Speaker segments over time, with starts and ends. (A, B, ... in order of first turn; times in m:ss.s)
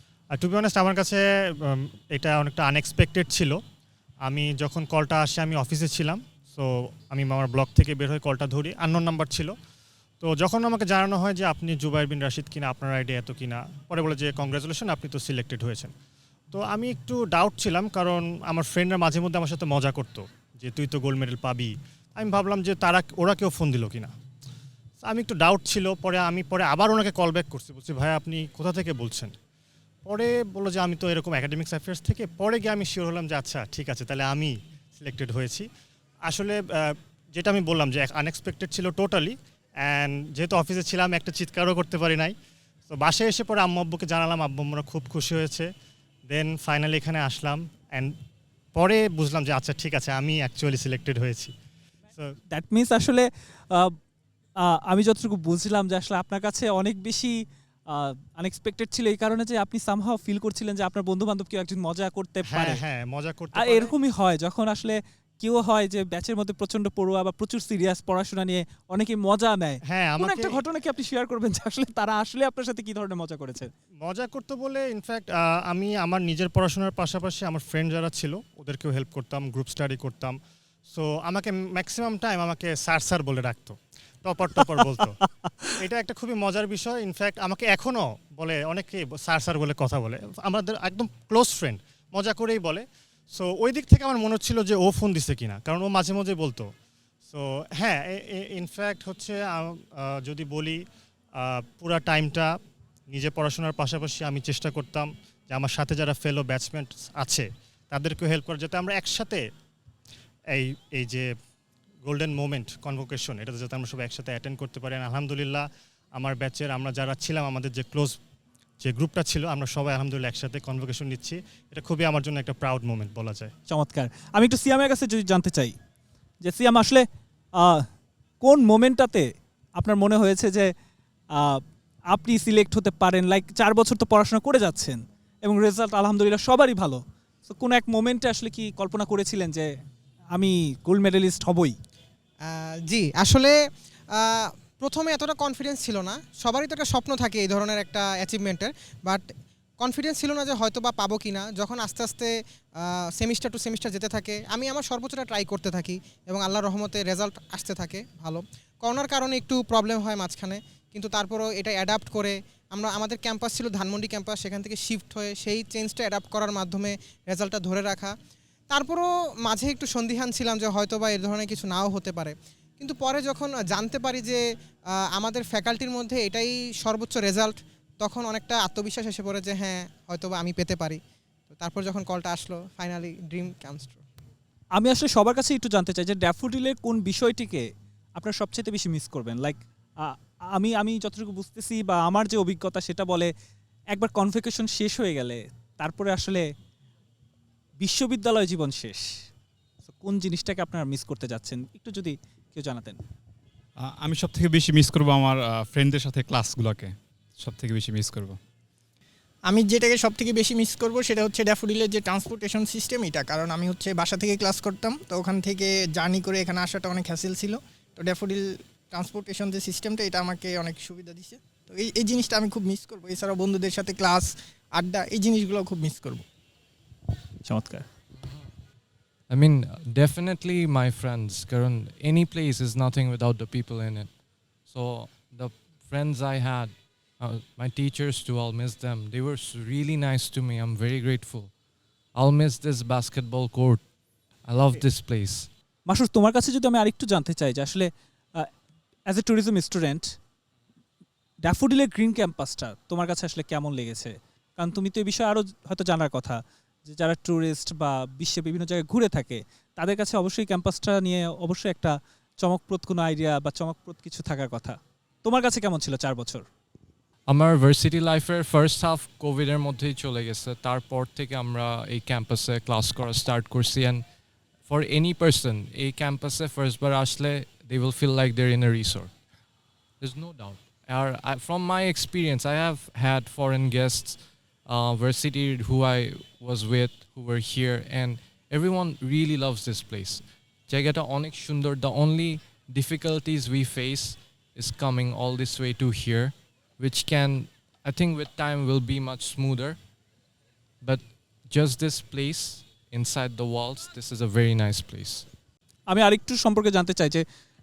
0:00.3-0:03.6 A
0:04.2-0:09.5 A
0:10.2-0:15.9 A
0:16.5-0:24.1 A
0:25.0-0:29.3 A
0:30.0-0:35.7 A
0:36.2-0:42.3 A
0:42.9-0:45.7 A
0:46.3-0:48.2 A
0:48.7-0:51.5 A
0:52.5-0:53.9 B
0:54.6-0:57.4 B
0:57.9-1:02.8 B
1:02.4-1:03.9 A
1:03.5-1:13.7 B
1:09.9-1:10.6 A
1:14.0-1:25.2 A
1:24.8-1:25.8 B
1:25.8-1:36.7 A
1:37.3-1:42.6 A
1:43.1-1:49.4 A
1:50.5-1:51.3 A
1:52.0-1:58.2 A
1:58.8-2:03.5 A
2:03.7-2:05.7 B
2:06.4-2:07.0 B
2:07.6-2:07.9 B
2:08.4-2:10.7 B
2:11.3-2:19.7 B
2:20.3-2:21.7 B
2:22.4-2:23.5 C
2:24.1-2:29.2 C
2:29.8-2:48.1 C
2:48.7-3:01.0 C
3:01.5-3:04.0 C
3:04.7-3:07.6 B
3:08.2-3:13.3 B
3:13.9-3:16.4 B
3:17.8-3:19.1 B
3:19.9-3:23.0 B
3:23.8-3:28.4 D
3:29.5-3:46.2 E
3:47.4-3:47.9 B
3:48.2-3:48.4 F
3:49.3-3:54.1 F
3:54.7-4:01.5 F
4:02.1-4:03.8 F
4:04.4-4:05.5 F
4:05.9-4:08.5 B
4:09.1-4:10.2 B
4:11.4-4:26.4 B
4:27.3-4:34.0 F
4:34.7-4:39.1 F
4:40.0-4:59.8 F
5:00.8-5:05.3 F
5:05.9-5:07.2 B